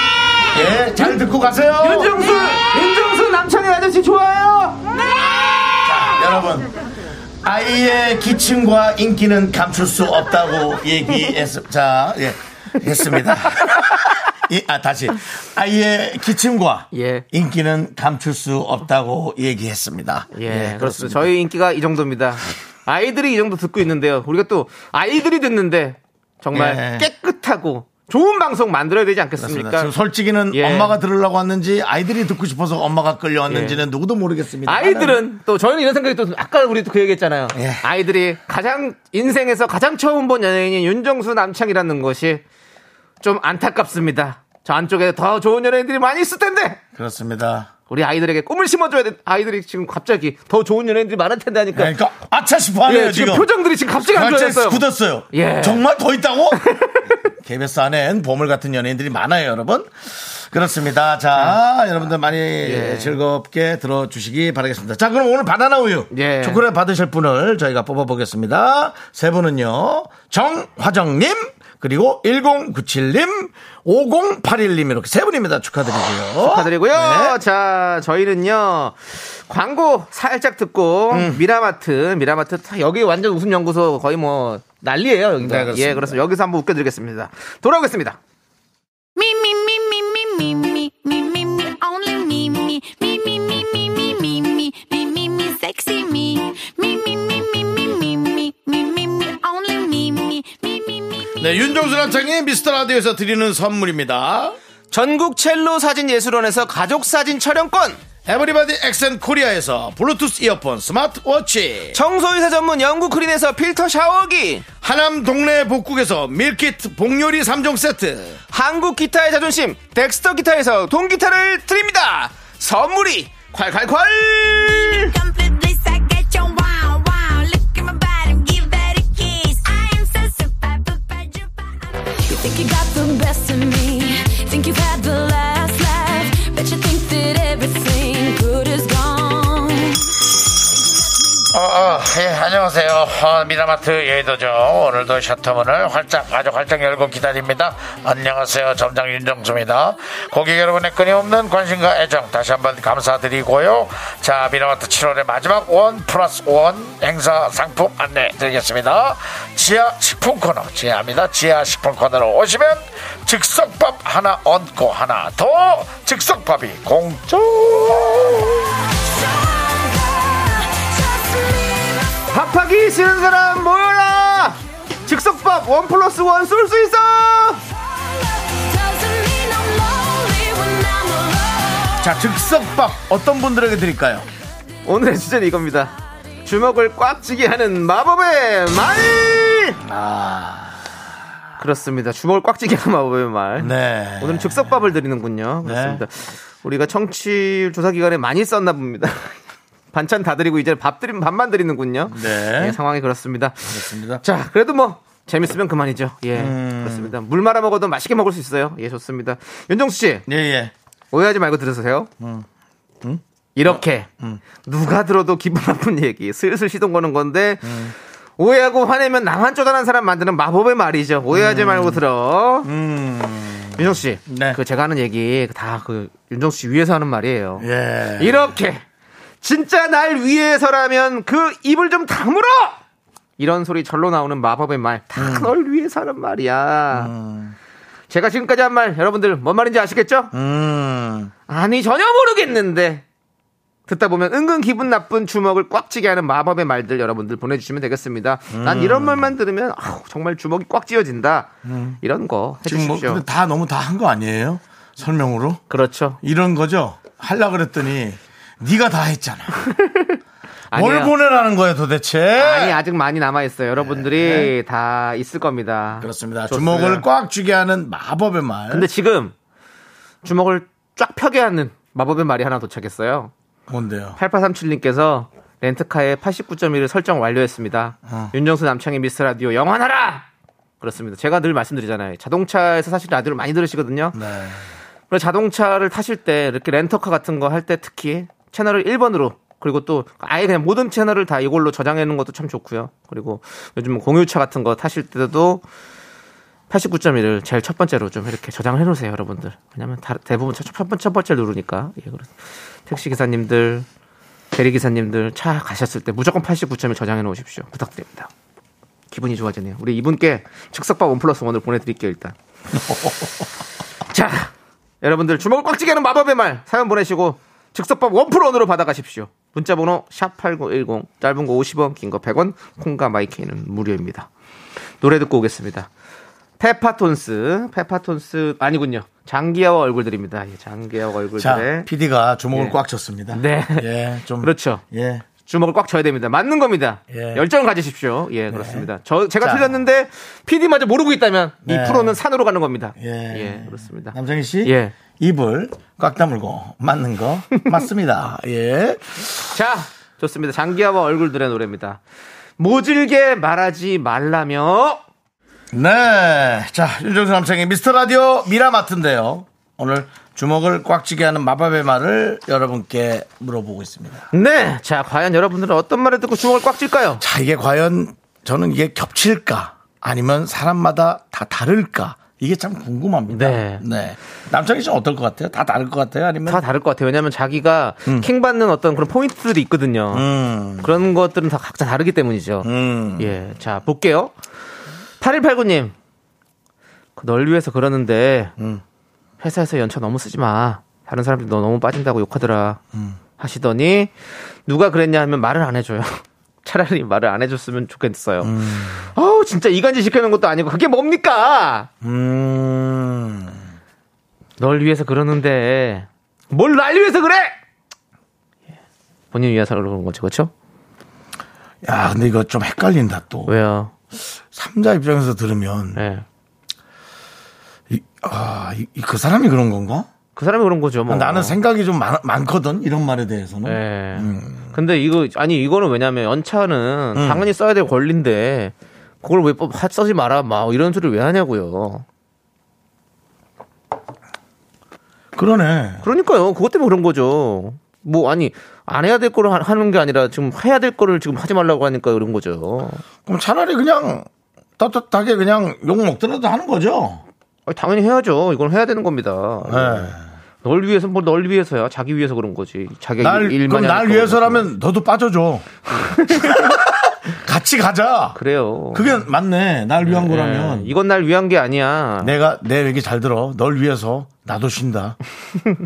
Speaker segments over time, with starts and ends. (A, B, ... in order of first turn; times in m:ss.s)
0:00.5-0:02.4 A
0:01.8-0:04.9 B
0:05.8-0:06.7 A
0:07.4-0:21.3 A
0:16.9-0:17.2 B
0:20.3-0:29.9 B
0:26.5-0:27.1 A
0:29.4-0:35.2 A
0:30.5-0:31.0 B
0:33.5-0:33.8 B
0:34.6-0:42.4 B
0:37.5-0:37.8 A
0:43.2-0:46.8 B
0:46.9-0:47.7 A
0:47.9-0:51.9 B
0:51.7-0:53.5 A
0:52.9-0:55.8 B
0:54.0-0:56.6 A
0:56.5-0:57.2 B
0:57.3-1:17.4 A
1:02.6-1:03.2 B
1:06.1-1:06.6 B
1:16.4-1:28.2 B
1:21.1-1:21.4 A
1:25.4-1:26.2 A
1:29.2-1:41.3 C
1:41.4-1:44.6 A
1:44.9-1:48.0 B
1:48.2-1:52.0 A
1:51.9-1:54.6 B
1:54.8-1:58.4 A
1:58.5-2:05.1 B
2:04.6-2:20.0 C
2:21.5-2:48.8 A
2:49.0-2:52.2 C
2:52.3-2:57.6 B
2:58.0-3:02.0 C
3:02.0-3:04.3 A
3:04.8-3:09.8 B
3:09.8-3:10.9 A
3:11.6-3:19.3 B
3:13.6-3:14.9 A
3:15.6-3:16.0 A
3:19.9-3:30.2 B
3:22.1-3:22.8 A
3:23.7-3:24.2 A
3:26.3-3:27.1 A
3:30.2-3:30.7 A
3:31.1-3:32.1 B
3:32.2-3:32.4 A
3:33.0-3:34.4 A
3:33.6-3:42.7 B
3:37.6-3:37.9 A
3:41.3-3:42.0 A
3:42.6-3:44.6 A
3:43.8-3:47.7 B
3:47.6-3:48.6 A
3:48.2-3:48.8 B
3:49.4-3:52.8 B
3:53.4-3:57.1 B
3:55.2-3:55.5 A
3:56.9-3:57.6 A
3:58.1-4:00.3 B
4:00.3-4:01.3 A
4:01.5-4:03.0 B
4:03.9-4:11.5 B
4:08.5-4:09.3 A
4:11.6-4:12.0 A
4:12.0-4:13.2 B
4:12.6-4:15.6 A
4:15.7-4:16.2 B
4:16.2-4:19.6 A
4:19.7-4:20.2 B
4:20.7-4:21.1 B
4:20.7-4:22.8 A
4:22.4-4:27.0 B
4:23.8-4:24.5 A
4:26.0-4:28.9 A
4:28.7-4:29.3 B
4:30.2-4:33.3 B
4:33.7-4:34.2 A
4:34.2-4:40.2 B
4:38.0-4:38.3 A
4:40.8-4:44.2 B
4:44.1-4:44.6 A
4:45.1-4:55.6 B
4:56.7-5:02.3 B
5:02.9-5:03.9 B
5:04.5-5:08.3 B
5:09.1-5:12.3 B
5:12.7-5:13.4 A
5:14.1-5:24.3 B
5:25.0-5:25.9 B
5:26.6-5:31.9 B
5:31.4-5:35.2 A
5:32.5-5:32.8 B
5:33.3-5:33.9 B
5:34.4-5:34.8 B
5:35.4-5:44.9 B
5:37.1-5:37.4 A
5:38.5-5:38.9 A
5:39.4-5:39.8 A
5:41.6-5:42.2 A
5:43.0-5:49.2 A
5:49.3-5:52.0 B
5:52.6-5:55.0 B
5:55.7-6:04.3 A
6:04.3-6:07.2 B
6:07.2-6:16.6 A
6:13.3-6:13.8 B
6:16.5-6:20.3 B
6:20.1-6:20.9 A
6:20.8-6:24.3 B
6:22.6-6:23.4 A
6:25.2-6:25.9 B
6:27.2-6:28.5 B
6:28.6-6:28.8 A
6:29.4-6:32.8 B
6:33.4-6:34.1 B
6:34.7-6:41.9 B
6:38.4-6:39.1 A
6:42.0-6:43.6 A
6:44.6-6:47.5 B
6:49.3-6:50.5 B
6:51.8-6:53.5 A
6:53.5-6:53.9 B
6:54.1-6:56.0 A
6:56.0-6:56.2 B
6:57.9-7:00.1 A
7:00.4-7:01.6 B
7:01.1-7:04.7 A
7:03.6-7:12.0 B
7:07.1-7:07.5 A
7:15.3-7:16.0 A
7:16.0-7:23.0 B
7:23.2-7:24.3 A
7:24.8-7:27.2 A
7:27.7-7:34.7 B
7:29.6-7:30.2 A
7:33.2-7:38.4 A
7:35.9-7:36.7 B
7:38.3-7:39.2 B
7:38.9-7:40.9 A
7:40.0-7:42.3 B
7:42.2-7:45.2 A